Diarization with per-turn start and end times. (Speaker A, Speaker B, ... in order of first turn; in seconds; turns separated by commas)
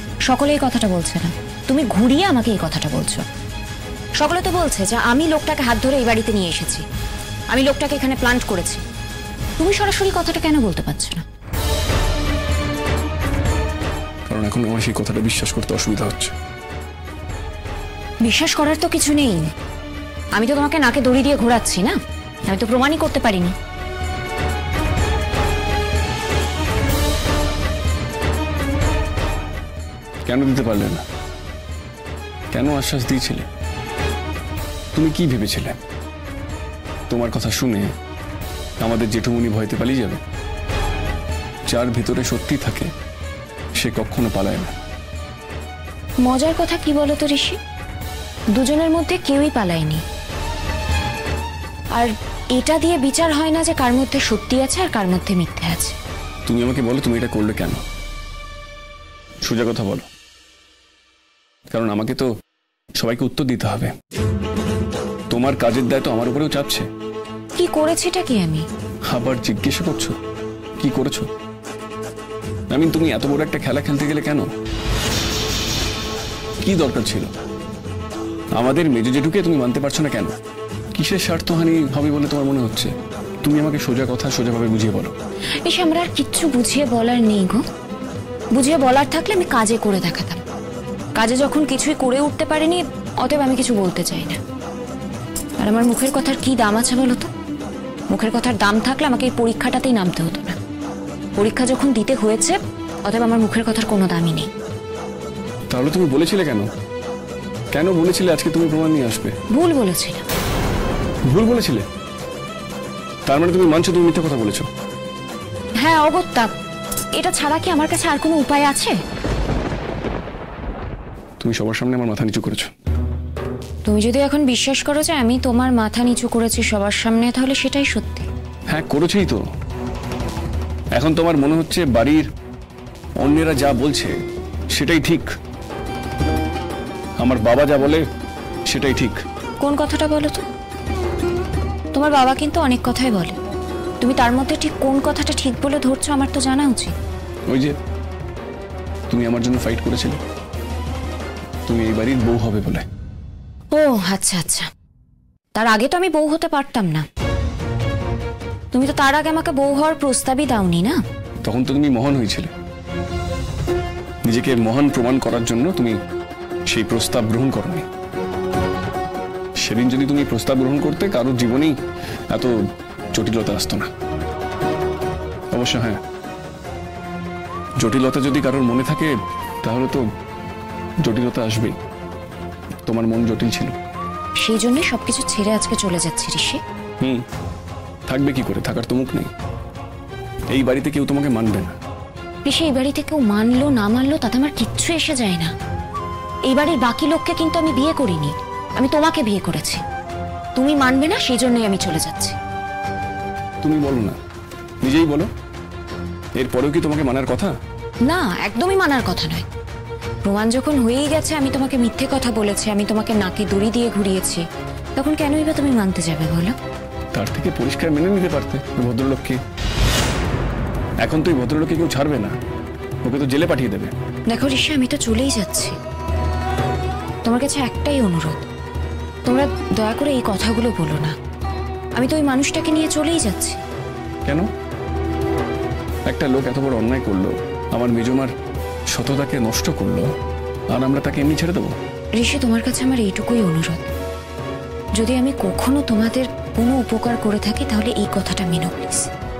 Speaker A: 0.3-3.2, Speaker A: 4.2-6.8, Speaker A: 7.5-8.8, Speaker A: 9.6-11.2, Speaker B: 14.3-16.3, Speaker A: 18.2-19.4, Speaker A: 20.4-22.0, Speaker A: 22.5-23.5, Speaker B: 30.2-31.0, Speaker B: 32.5-33.5, Speaker B: 34.9-35.8, Speaker B: 37.1-37.9, Speaker B: 38.8-40.2, Speaker B: 41.7-42.9, Speaker B: 43.8-44.7, Speaker A: 46.2-47.6, Speaker A: 48.5-50.0, Speaker A: 51.9-56.0, Speaker B: 56.5-57.8, Speaker B: 59.4-60.0, Speaker B: 61.7-62.3, Speaker B: 63.0-63.9, Speaker B: 65.3-66.8, Speaker A: 67.5-68.6, Speaker B: 69.1-70.2, Speaker B: 70.8-71.3, Speaker B: 72.7-74.5, Speaker B: 76.6-77.3, Speaker B: 78.5-80.3, Speaker B: 80.9-85.1, Speaker A: 85.7-87.6, Speaker A: 88.5-90.4, Speaker A: 91.2-94.4, Speaker A: 95.6-97.3, Speaker A: 98.1-100.6, Speaker A: 101.3-104.5, Speaker B: 105.7-106.7, Speaker B: 107.7-109.3, Speaker A: 109.5-110.2, Speaker B: 111.3-111.9, Speaker B: 113.2-114.7, Speaker A: 115.8-116.5, Speaker A: 117.2-119.0, Speaker B: 121.4-122.7, Speaker A: 123.8-128.3, Speaker B: 128.7-129.4, Speaker B: 130.9-132.3, Speaker B: 133.2-134.1, Speaker B: 134.7-135.3, Speaker B: 137.2-138.0, Speaker B: 138.7-139.2, Speaker A: 139.6-140.4, Speaker A: 141.9-143.4, Speaker A: 144.0-146.9, Speaker B: 147.5-147.7, Speaker B: 149.1-150.2, Speaker B: 151.7-152.8, Speaker A: 153.7-154.7, Speaker A: 155.6-157.0, Speaker A: 158.7-161.0, Speaker B: 161.4-162.5, Speaker B: 164.2-166.0, Speaker B: 166.7-167.9, Speaker B: 169.6-171.8, Speaker B: 173.1-173.9, Speaker B: 175.5-176.0, Speaker B: 177.8-180.0, Speaker B: 181.0-181.8, Speaker B: 182.8-183.8, Speaker A: 184.4-186.6, Speaker B: 188.1-189.3, Speaker B: 190.5-191.8, Speaker A: 192.4-195.5, Speaker A: 196.5-199.8, Speaker A: 200.6-202.3, Speaker B: 203.6-204.2, Speaker B: 204.8-205.3, Speaker B: 206.4-207.5, Speaker A: 208.1-209.4, Speaker A: 210.2-214.4, Speaker A: 215.0-216.5, Speaker B: 217.1-219.4, Speaker B: 221.0-222.3, Speaker B: 223.0-223.9, Speaker A: 224.3-225.8, Speaker A: 227.2-228.4, Speaker A: 229.2-231.1, Speaker A: 231.9-233.6, Speaker B: 236.1-238.3, Speaker B: 238.9-240.1, Speaker B: 240.7-241.8, Speaker A: 242.2-243.9, Speaker A: 245.0-249.1